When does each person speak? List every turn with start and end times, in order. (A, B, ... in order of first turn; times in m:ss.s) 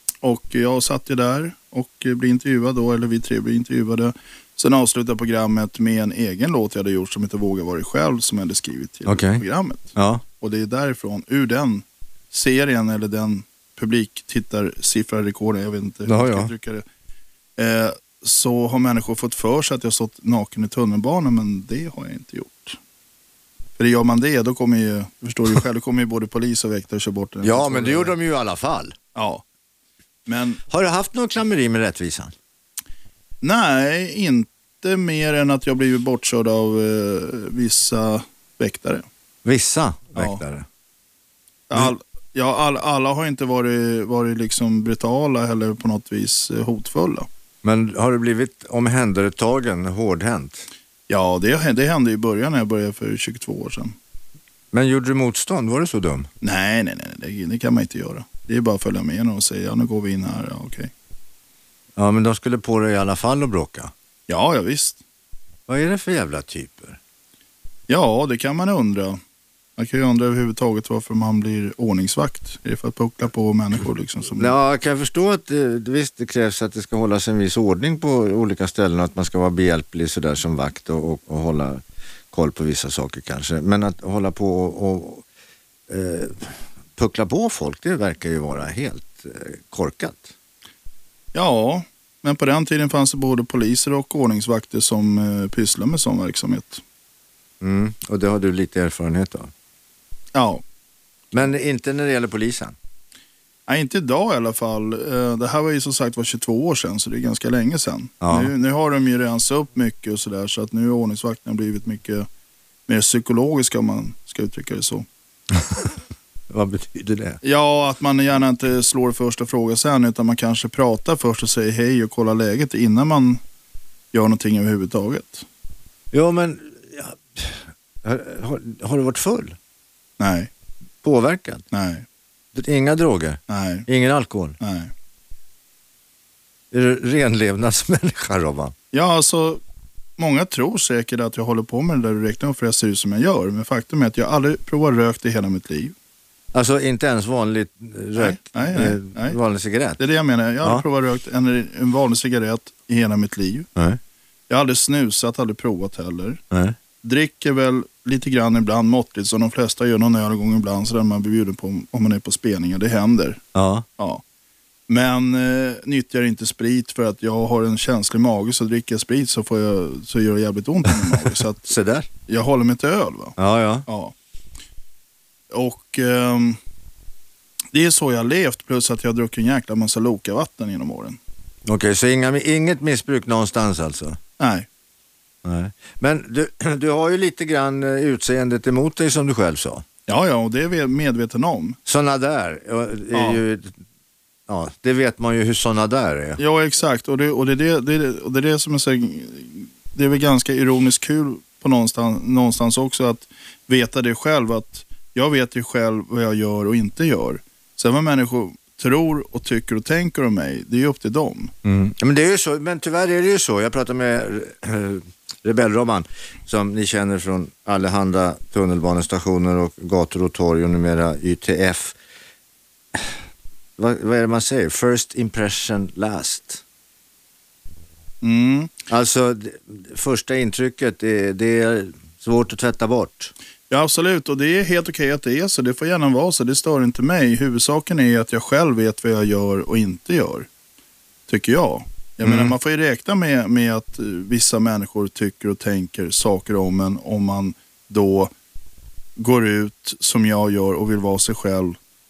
0:00.2-0:16.8 A
0:09.1-0:09.4 B
0:10.0-0:10.2 B
0:16.1-0:16.5 B
0:17.6-0:22.8 A
0:23.8-0:28.1 A
0:27.4-0:29.0 B
0:29.2-0:29.4 A
0:30.3-0:30.6 A
0:30.7-0:32.3 B
0:33.4-0:39.0 A
0:39.4-0:40.7 B
0:40.2-0:40.4 A
0:41.7-0:47.3 A
0:47.6-0:50.7 B
0:51.1-0:54.0 A
0:54.7-0:56.3 B
0:56.4-1:00.9 A
1:02.0-1:03.9 B
1:04.3-1:05.0 A
1:05.7-1:07.0 B
1:07.9-1:09.2 A
1:09.8-1:14.6 A
1:14.4-1:25.2 B
1:25.9-1:30.3 B
1:31.3-1:36.8 A
1:37.6-1:39.5 B
1:40.3-1:40.6 A
1:41.3-1:42.8 B
1:43.7-1:52.3 A
1:48.2-1:48.5 B
1:52.9-1:55.1 A
1:55.6-1:55.8 B
1:56.5-1:57.4 B
1:57.4-2:03.4 A
2:04.1-2:05.5 A
2:06.1-2:09.6 B
2:10.2-2:10.5 A
2:11.0-2:11.6 B
2:11.7-2:12.1 A
2:12.5-2:14.6 B
2:13.5-2:13.9 A
2:14.6-2:14.9 A
2:16.7-2:18.7 B
2:18.9-2:19.6 A
2:20.2-2:26.0 A
2:26.5-2:30.0 B
2:28.2-2:29.4 A
2:30.0-2:33.7 A
2:34.5-2:36.4 A
2:36.5-2:36.8 B
2:37.0-2:43.4 A
2:43.5-2:43.9 B
2:44.0-2:44.2 A
2:44.9-2:51.7 A
2:51.6-2:52.1 B
2:52.3-2:54.1 A
2:53.4-2:53.9 B
2:55.5-2:56.6 A
2:57.7-3:01.2 A
3:01.7-3:04.2 B
3:04.4-3:04.7 A
3:05.4-3:09.8 B
3:10.1-3:11.8 A
3:11.9-3:13.8 B
3:13.1-3:13.4 A
3:14.5-3:16.4 B
3:16.4-3:31.5 A
3:31.6-3:42.0 B
3:43.8-3:46.6 B
3:48.2-3:48.7 A
3:48.9-3:53.3 B
3:53.7-4:00.5 A
4:01.3-4:08.3 A
4:02.2-4:02.5 B
4:09.2-4:11.8 A